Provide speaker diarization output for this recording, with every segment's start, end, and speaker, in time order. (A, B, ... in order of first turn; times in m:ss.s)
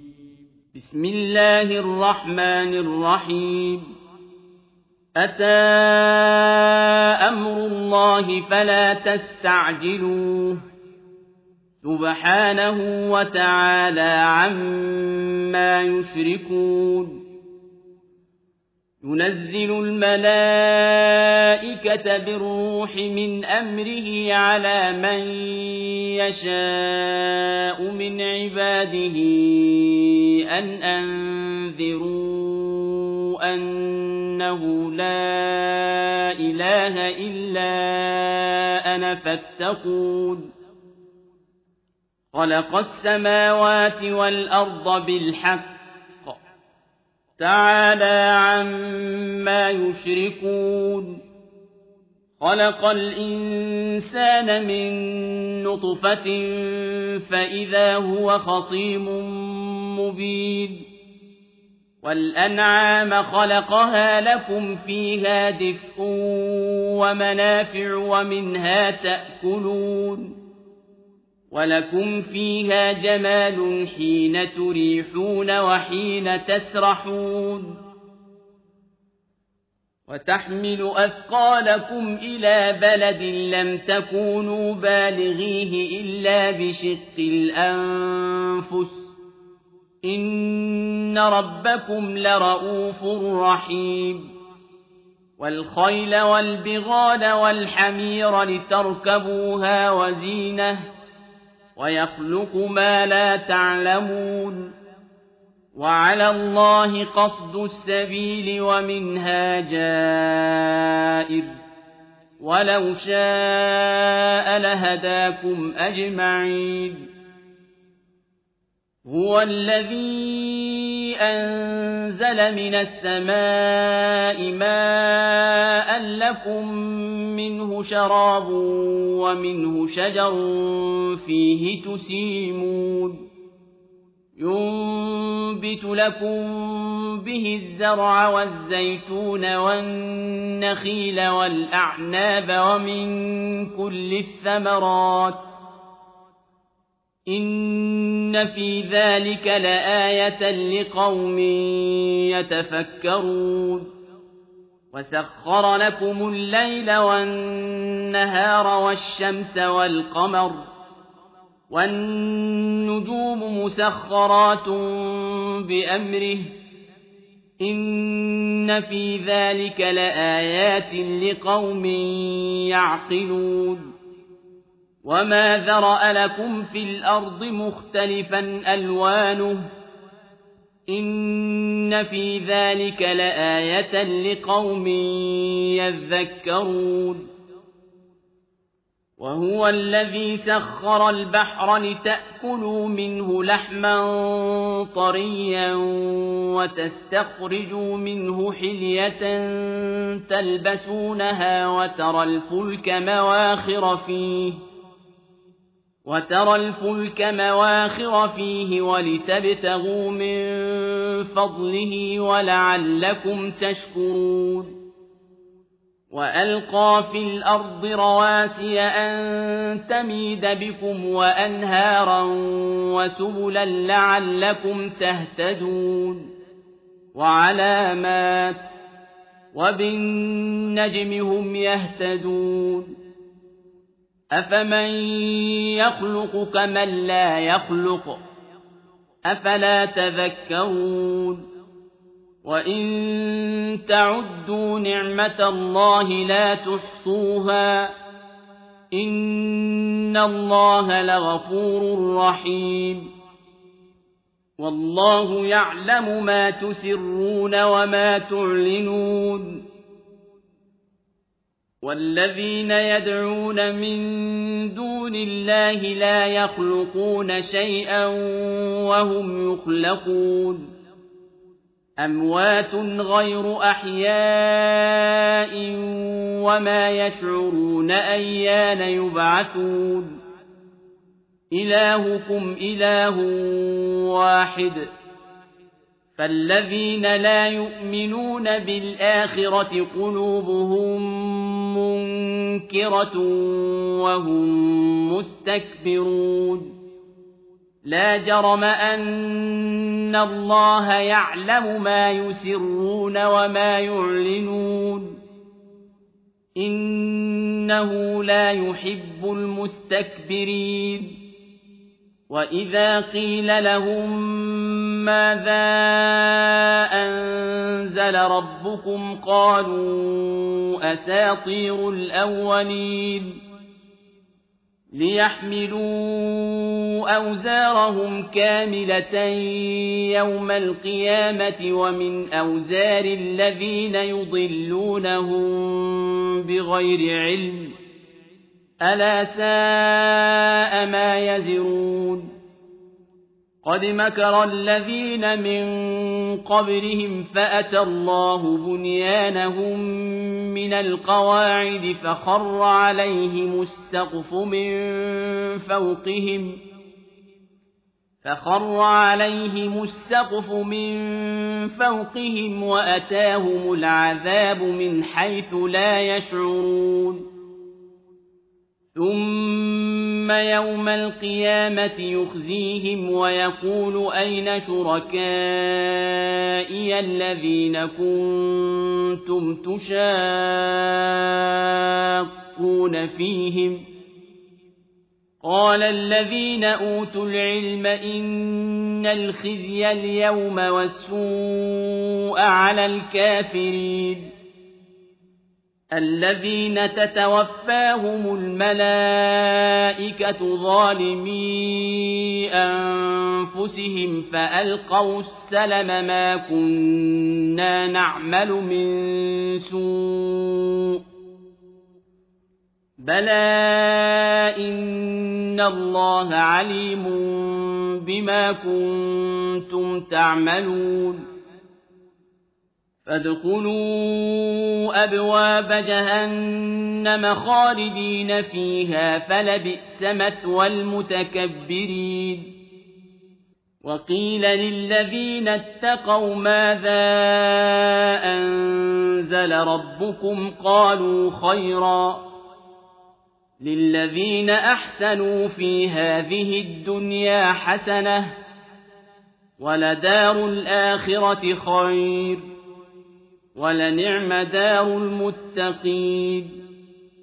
0:00.7-0:03.9 A
0:05.2-0:10.6 A
0:11.8-0:17.2 A
0:19.0-0:40.5 A
0:42.3-0:46.4 A
0:47.4-0:51.2 A
0:52.4-1:00.8 A
1:02.0-1:10.3 A
1:11.5-1:17.8 A
1:20.1-1:29.2 A
1:30.0-1:34.3 A
1:35.4-1:40.9 A
1:41.8-1:44.7 A
1:45.8-1:51.6 A
1:52.4-1:57.1 A
1:59.0-2:13.2 A
2:14.4-2:25.6 A
2:27.3-2:33.9 A
2:34.9-2:40.7 A
2:41.7-2:46.6 A
2:47.6-2:53.9 A
2:55.0-2:59.7 A
3:00.9-3:07.3 A
3:09.2-3:24.6 A
3:26.1-3:34.8 A
3:36.1-3:46.3 A
3:47.2-3:48.8 A
3:49.5-3:52.9 A
3:54.3-3:58.2 A
3:59.3-4:01.5 A
4:02.4-4:07.9 A
4:08.9-4:13.1 A
4:14.6-4:19.6 A
4:21.8-4:30.7 A
4:32.0-4:40.2 A
4:41.5-4:44.9 A
4:46.2-4:56.8 A
4:57.8-5:05.2 A
5:06.6-5:11.2 A
5:12.3-5:23.4 A
5:24.9-5:37.7 A
5:38.8-5:42.3 A
5:43.6-5:56.6 A
5:58.2-6:07.2 A
6:08.9-6:23.9 A
6:25.4-6:34.3 A
6:35.9-6:51.0 A
6:53.0-7:01.2 A
7:03.0-7:12.5 A
7:13.8-7:22.3 A
7:23.6-7:28.4 A
7:29.6-7:32.4 A
7:33.6-7:36.6 A